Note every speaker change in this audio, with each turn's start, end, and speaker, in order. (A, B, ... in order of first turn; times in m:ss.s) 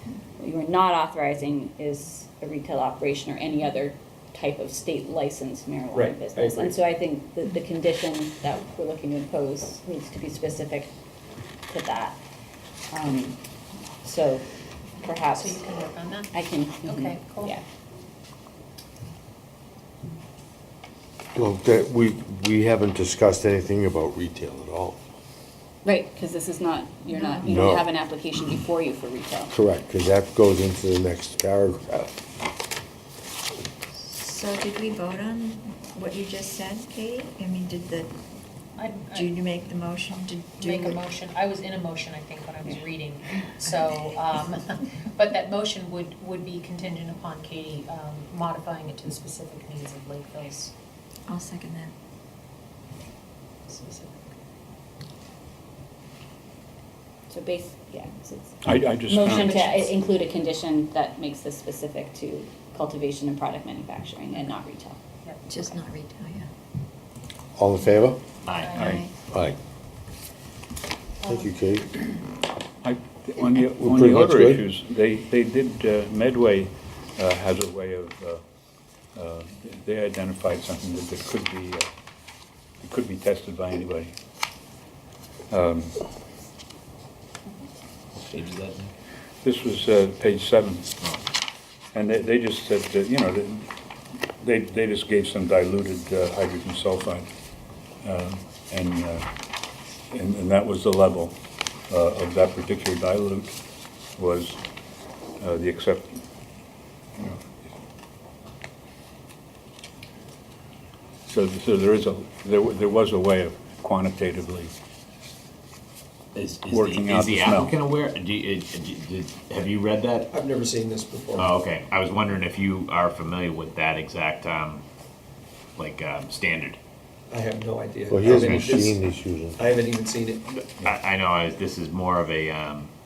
0:00.4-0:10.9 A
0:05.9-0:06.7 B
0:11.7-0:12.2 A
0:12.9-0:13.4 A
0:14.0-0:14.4 A
0:15.0-0:15.6 A
0:15.3-0:16.3 C
0:16.3-0:17.6 A
0:16.8-0:17.6 C
0:21.3-0:25.0 D
0:25.8-0:29.5 A
0:27.1-0:27.6 E
0:27.4-0:27.8 D
0:29.5-0:32.1 D
0:34.0-0:38.1 E
0:38.8-0:39.5 C
0:39.1-0:41.0 E
0:40.6-0:50.7 C
0:51.3-0:51.9 E
0:53.7-0:54.3 C
0:57.3-1:05.0 A
0:58.6-0:59.7 F
0:59.2-0:59.9 C
1:05.5-1:06.5 E
1:07.6-1:08.2 D
1:08.5-1:08.7 G
1:08.5-1:09.0 C
1:08.7-1:09.1 F
1:08.8-1:09.1 E
1:09.3-1:09.6 D
1:11.2-1:11.6 C
1:11.2-1:11.9 D
1:12.8-1:18.4 F
1:13.5-1:14.6 D
1:19.1-1:21.9 F
1:22.8-1:24.1 F
1:25.5-1:25.9 F
1:28.2-1:28.9 G
1:29.4-1:30.9 F
1:31.9-1:33.7 F
1:34.4-1:37.3 F
1:38.0-1:39.3 F
1:40.1-1:41.3 F
1:41.9-1:43.6 F
1:44.2-1:44.6 F
1:45.4-1:46.2 F
1:47.2-1:47.7 F
1:51.3-1:54.7 F
1:56.3-2:00.3 G
1:56.7-1:57.8 F
2:00.3-2:01.6 B
2:01.4-2:04.8 G
2:05.8-2:06.8 G
2:07.3-2:09.0 B
2:08.1-2:09.6 D
2:08.3-2:08.7 G
2:09.6-2:10.4 B
2:10.5-2:12.9 G